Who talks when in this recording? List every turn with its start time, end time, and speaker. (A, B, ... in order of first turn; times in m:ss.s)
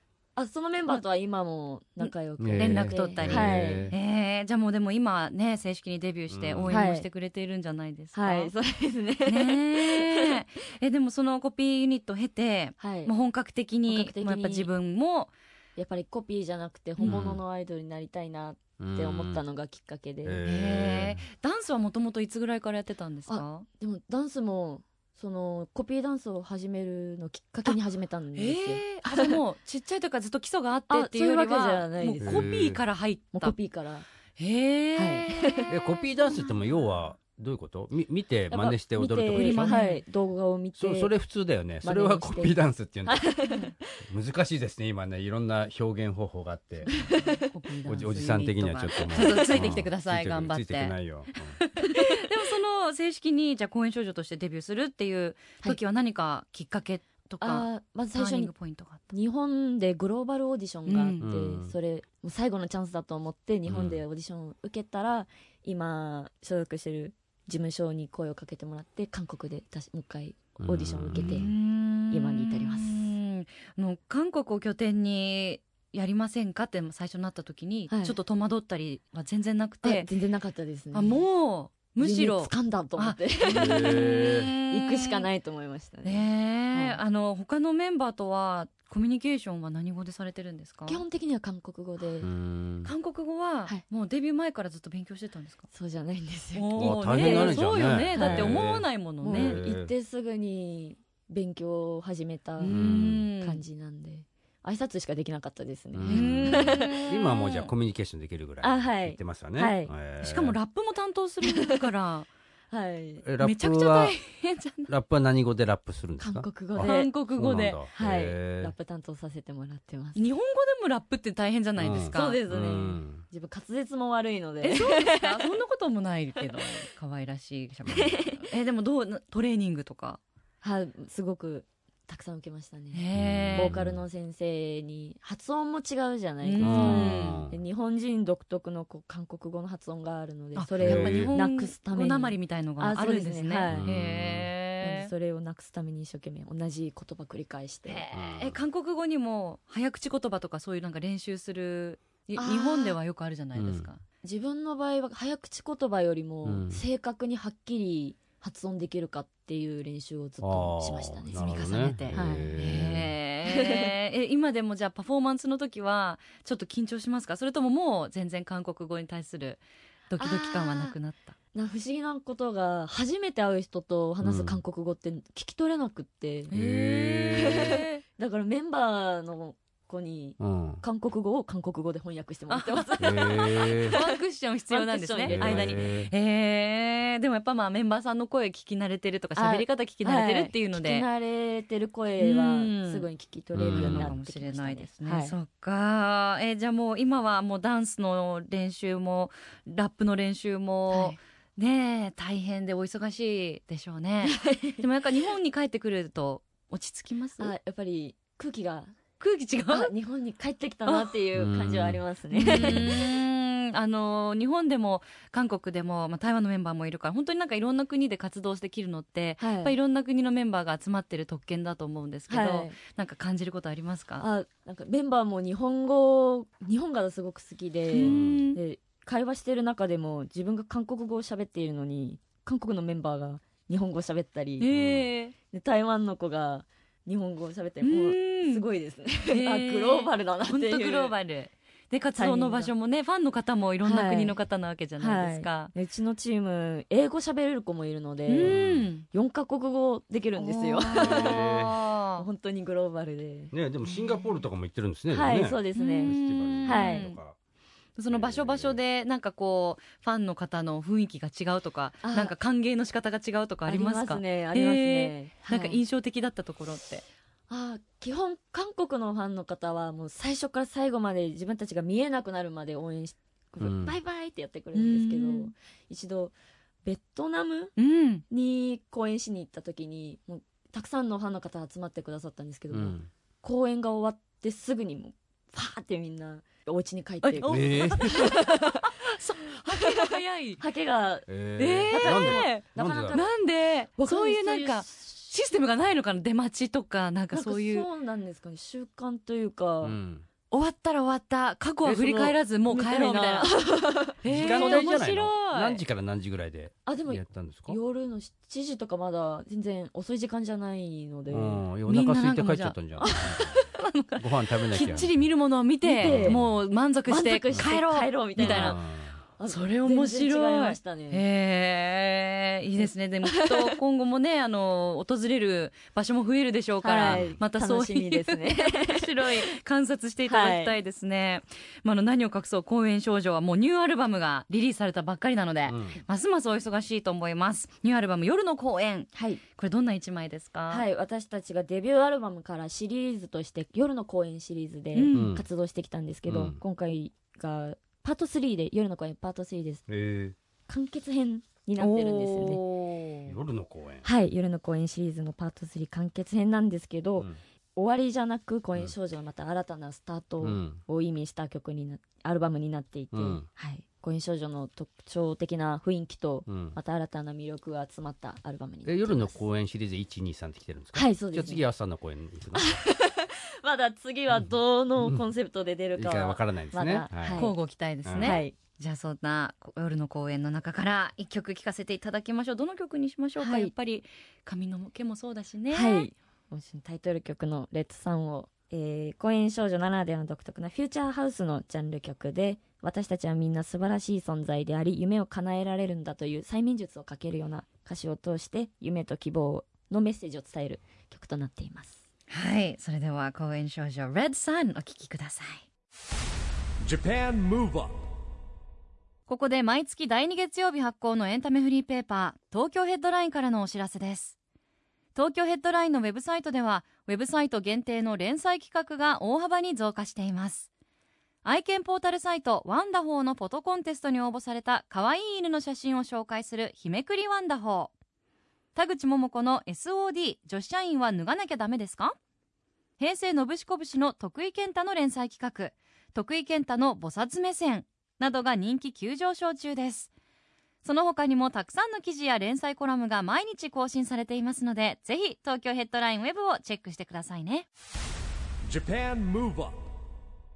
0:00.4-0:03.9 A
0:02.0-0:08.5 B
0:02.4-0:04.0 C
0:06.3-0:06.8 C
0:06.7-0:07.1 A
0:08.2-0:10.4 A
0:09.2-0:15.3 B
0:12.8-0:13.1 A
0:13.9-0:14.7 A
0:15.8-0:20.4 A
0:17.0-0:17.3 B
0:17.0-0:17.4 C
0:18.8-0:19.4 C
0:20.2-0:21.2 C
0:20.4-0:23.7 B
0:23.3-0:29.4 A
0:28.4-0:33.5 B
0:30.9-0:32.5 A
0:32.2-0:32.8 C
0:33.3-0:34.1 A
0:34.4-0:35.7 B
0:35.0-0:35.7 A
0:35.7-0:39.8 C
0:38.5-0:41.1 A
0:39.4-0:40.0 B
0:40.8-0:43.3 C
0:41.8-0:43.9 A
0:43.5-0:43.7 B
0:44.0-0:46.9 C
0:46.8-0:51.0 B
0:46.9-0:47.4 A
0:47.9-0:51.6 C
0:49.2-0:49.7 A
0:51.6-0:59.1 B
0:51.8-0:52.1 A
0:57.4-0:58.5 A
0:59.1-1:11.5 A
1:00.9-1:01.2 B
1:01.2-1:01.7 C
1:03.7-1:04.0 C
1:10.6-1:11.5 C
1:11.1-1:20.1 B
1:12.1-1:13.0 A
1:17.9-1:18.2 A
1:19.8-1:21.2 A
1:20.9-1:25.3 B
1:22.0-1:27.0 A
1:23.5-1:24.5 C
1:26.0-1:31.0 B
1:30.9-1:32.3 A
1:32.2-1:32.9 C
1:32.8-1:35.7 B
1:35.7-1:47.0 A
1:36.5-1:39.6 B
1:36.8-1:39.9 C
1:42.6-1:43.6 B
1:42.7-1:43.2 C
1:45.9-1:50.6 C
1:46.1-1:47.7 B
1:48.6-1:49.9 A
1:50.2-1:52.3 B
1:51.4-1:51.8 A
1:52.7-1:53.3 A
1:53.2-1:54.2 C
1:53.4-1:54.9 B
1:54.9-1:58.7 C
1:56.2-1:57.1 A
1:56.8-1:57.8 B
1:57.9-2:00.2 A
2:00.2-2:02.4 B
2:01.8-2:03.2 C
2:02.1-2:05.5 A
2:04.6-2:10.2 B
2:06.4-2:06.6 A
2:07.9-2:08.5 A
2:10.6-2:24.0 A
2:12.9-2:13.8 B
2:13.1-2:14.0 C
2:16.4-2:17.4 B
2:16.6-2:17.6 C
2:20.6-2:25.1 B
2:20.8-2:21.3 C
2:23.7-2:24.5 C
2:24.8-2:28.0 A
2:27.9-2:34.0 B
2:28.1-2:28.6 C
2:32.4-2:33.0 A
2:33.6-2:33.9 C
2:34.2-2:42.5 A
2:36.4-2:36.8 C
2:40.4-2:43.1 C
2:41.4-2:51.4 B
2:43.5-2:43.9 A
2:50.2-2:51.0 A
2:51.5-2:56.5 A
2:54.2-2:54.6 C
2:56.5-2:58.0 B
2:56.5-2:57.8 C
2:57.3-3:05.9 A
3:00.4-3:00.8 C
3:02.5-3:11.1 B
3:03.0-3:04.0 C
3:05.2-3:06.1 C
3:09.4-3:15.4 A
3:12.2-3:13.1 B
3:13.5-3:14.1 C
3:13.6-3:27.5 B
3:20.9-3:21.2 A
3:24.2-3:24.8 A
3:27.4-3:28.9 A
3:29.2-3:29.9 B
3:29.7-3:33.0 A
3:30.9-3:31.1 B
3:31.3-3:33.1 C
3:32.3-3:44.3 B
3:39.4-3:39.8 A
3:42.3-3:42.8 A
3:44.2-3:54.7 A
3:47.9-3:48.6 B
3:48.0-3:48.5 C
3:54.6-3:55.3 B
3:54.7-3:55.1 C
3:55.5-4:01.1 A
3:57.8-3:58.7 B
3:59.3-4:05.7 B
4:02.2-4:02.7 A
4:03.8-4:04.4 A
4:05.0-4:11.6 A
4:08.3-4:09.1 B
4:08.4-4:08.9 C
4:10.4-4:12.3 B
4:10.9-4:11.8 C
4:12.2-4:13.5 A
4:13.5-4:17.4 C
4:15.1-4:17.1 A
4:15.7-4:17.2 B
4:18.0-4:27.0 B
4:18.1-4:18.8 C
4:22.0-4:22.3 A
4:23.7-4:25.8 A
4:27.5-4:37.8 A
4:33.6-4:34.0 C
4:34.7-4:35.5 B
4:37.8-4:38.2 B
4:38.3-4:49.0 A
4:42.7-4:43.1 C
4:47.2-4:50.6 B
4:47.5-4:48.4 C
4:49.5-4:51.3 A
4:51.3-4:53.2 C
4:51.6-4:57.9 B
4:51.9-4:53.4 A
4:54.0-4:55.1 A
4:57.3-5:00.0 A
4:59.8-5:00.3 C
5:00.5-5:03.5 B
5:01.8-5:04.9 A
5:04.2-5:05.8 B
5:04.3-5:07.8 C
5:06.9-5:11.6 A
5:11.3-5:13.6 C
5:11.9-5:18.8 B
5:13.0-5:13.6 A
5:14.2-5:15.1 C
5:15.8-5:16.5 A
5:16.0-5:16.4 C
5:17.1-5:18.8 A
5:18.4-5:19.2 C
5:19.4-5:21.2 A
5:19.5-5:40.8 B
5:22.8-5:23.8 A
5:26.8-5:29.5 A
5:27.0-5:27.4 C
5:30.3-5:30.8 A
5:35.7-5:36.0 C
5:39.2-5:39.4 A
5:40.7-5:49.9 A
5:44.9-5:45.3 B
5:45.1-5:45.5 C
5:46.3-5:46.6 C
5:49.9-5:50.4 C
5:50.7-5:52.6 A
5:51.8-5:53.4 B
5:53.3-5:54.0 C
5:54.0-6:09.4 A
6:00.4-6:00.8 C
6:03.1-6:03.5 C
6:06.5-6:06.8 C
6:08.8-6:12.7 C
6:10.9-6:11.6 A
6:12.5-6:17.6 A
6:14.3-6:15.2 C
6:16.0-6:17.5 C
6:17.3-6:26.1 B
6:18.0-6:18.3 C
6:18.2-6:18.6 A
6:23.4-6:23.7 A
6:25.7-6:42.0 A
6:42.3-6:45.6 B
6:46.8-6:47.9 D
6:49.3-6:54.4 B
6:55.2-7:00.7 B
7:01.4-7:07.9 B
7:08.8-7:12.2 B
7:13.0-7:20.1 B
7:20.8-7:27.7 B
7:28.6-7:29.8 D